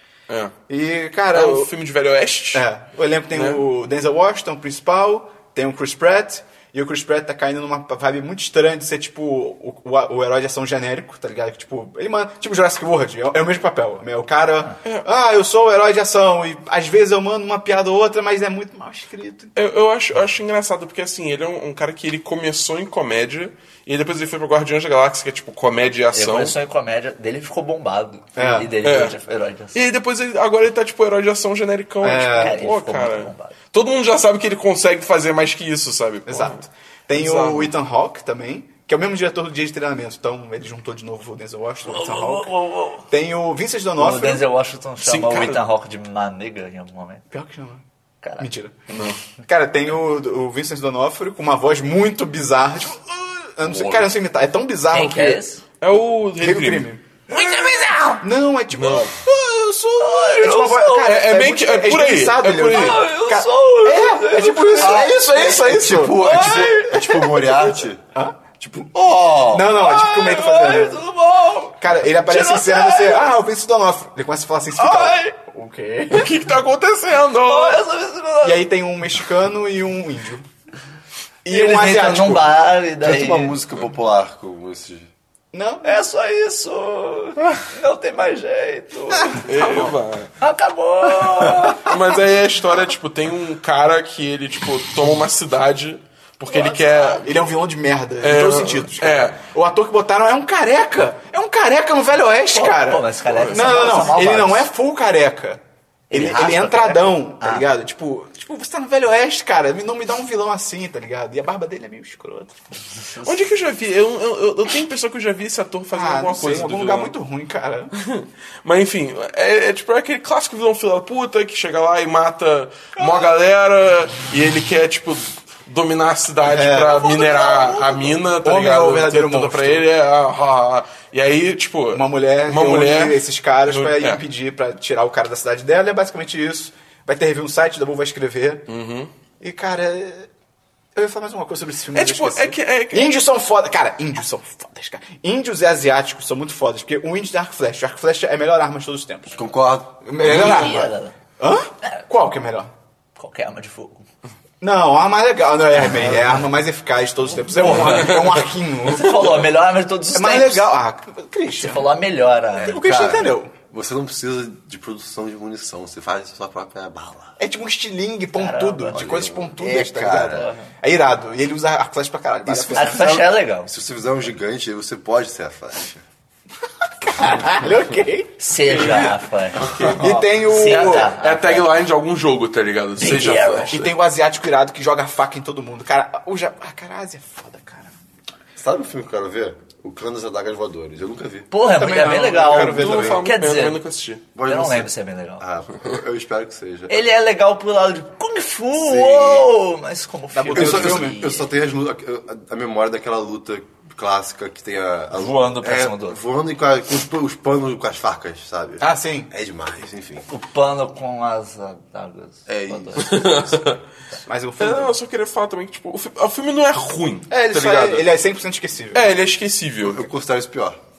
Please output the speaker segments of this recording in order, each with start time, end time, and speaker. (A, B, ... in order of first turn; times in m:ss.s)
0:00.3-0:00.5 A
0:00.7-0:01.7 B
0:01.3-0:02.7 A
0:02.5-0:19.7 B
0:03.3-0:03.6 A
0:19.6-0:26.6 A
0:26.1-0:29.8 C
0:28.4-0:28.7 B
0:28.8-0:29.2 A
0:29.7-0:37.7 A
0:32.0-0:32.6 B
0:32.3-0:33.6 C
0:36.3-0:42.5 B
0:41.8-0:43.1 C
0:43.1-0:44.4 B
0:44.0-0:47.2 C
0:45.0-0:45.6 A
0:47.3-0:47.8 B
0:48.2-0:48.5 C
0:48.4-0:48.7 B
0:48.9-0:49.2 A
0:49.4-0:55.4 B
0:53.7-0:54.0 A
0:54.9-0:55.6 C
0:55.8-0:56.9 A
0:56.4-0:57.0 B
0:57.3-0:58.2 C
0:58.2-1:06.7 B
0:58.7-0:59.1 A
1:00.0-1:01.2 C
1:01.0-1:03.1 A
1:02.7-1:05.0 C
1:04.7-1:08.0 D
1:04.9-1:06.2 A
1:06.1-1:07.7 C
1:08.6-1:09.8 D
1:09.5-1:11.0 B
1:09.7-1:13.3 C
1:11.8-1:16.3 B
1:14.8-1:15.3 C
1:16.1-1:17.8 A
1:17.4-1:18.6 C
1:18.4-1:20.4 B
1:21.4-1:22.5 B
1:21.5-1:23.6 C
1:23.0-1:25.1 D
1:25.5-1:26.0 B
1:25.8-1:31.9 C
1:29.4-1:30.3 A
1:31.4-1:37.3 A
1:36.5-1:37.2 C
1:37.1-1:52.5 B
1:38.2-1:39.4 A
1:42.5-1:44.7 C
1:43.3-1:44.1 A
1:46.1-1:47.6 C
1:52.9-1:53.5 C
1:53.2-1:57.1 A
1:55.9-1:57.9 B
1:57.9-2:14.2 A
2:03.0-2:03.3 B
2:06.4-2:09.8 B
2:11.9-2:18.6 B
2:18.7-2:19.1 A
2:19.4-2:20.3 B
2:20.9-2:29.4 B
2:21.9-2:23.2 A
2:29.3-2:30.9 D
2:30.0-2:32.7 B
2:30.2-2:31.2 C
2:33.2-2:34.1 C
2:34.6-2:39.4 B
2:35.8-2:36.4 C
2:35.9-2:36.2 D
2:37.6-2:38.2 C
2:37.7-2:38.3 A
2:38.8-2:40.7 C
2:40.1-2:41.9 B
2:41.6-2:43.3 C
2:42.6-2:43.5 B
2:43.7-2:47.4 D
2:47.4-2:53.2 B
2:48.3-2:49.3 C
2:48.9-2:50.5 D
2:50.1-2:50.7 C
2:52.4-2:56.0 D
2:52.7-2:53.7 C
2:57.0-2:59.2 B
2:58.4-3:01.8 C
2:59.6-3:03.9 A
2:59.6-2:59.9 D
3:00.0-3:01.1 B
3:03.0-3:03.8 C
3:03.7-3:07.9 B
3:08.6-3:11.5 D
3:11.5-3:13.8 C
3:11.7-3:13.2 B
3:12.3-3:14.2 A
3:14.3-3:17.0 D
3:14.4-3:15.4 C
3:16.9-3:21.5 C
3:18.8-3:19.5 D
3:20.3-3:21.2 B
3:20.5-3:30.3 D
3:25.2-3:26.2 C
3:28.8-3:29.3 B
3:30.3-3:33.2 C
3:32.5-3:33.6 D
3:33.0-3:33.8 A
3:34.2-3:34.9 B
3:34.6-3:38.1 A
3:37.3-3:39.1 B
3:38.9-3:40.1 A
3:39.8-3:40.8 D